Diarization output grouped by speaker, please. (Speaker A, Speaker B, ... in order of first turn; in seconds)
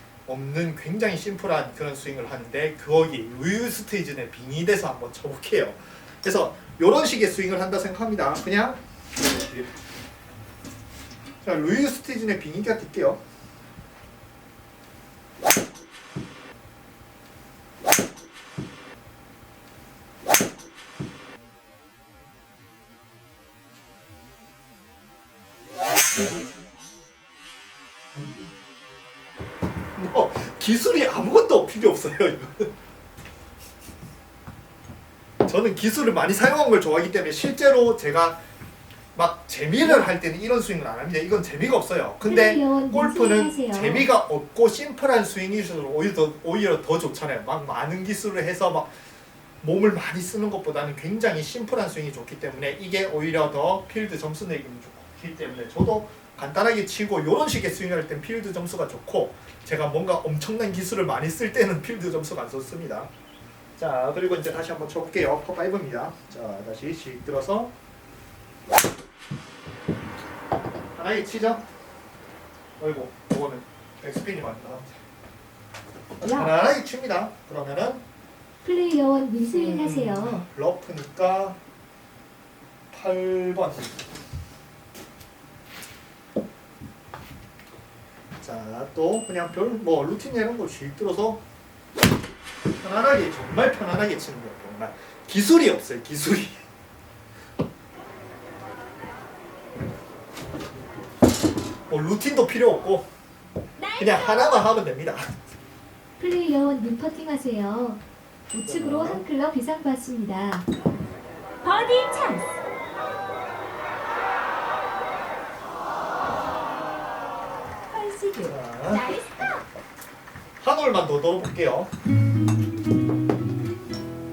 Speaker A: 0.3-9.7, 11.4-13.2, 30.0-32.7, 35.5-38.4, 39.1-49.0, 49.6-63.1, 63.8-67.7, 71.0-71.6, 72.8-75.0, 76.3-78.0, 79.5-81.6, 82.9-84.0, 88.4-91.4, 92.8-96.6, 101.9-103.1, 104.0-105.3, 108.7-109.3, 118.5-119.4, 120.6-121.9
Speaker B: 39.8-40.1, 42.2-44.1, 78.6-80.5, 106.2-110.7
Speaker C: 103.8-104.6, 111.6-112.6, 117.9-119.6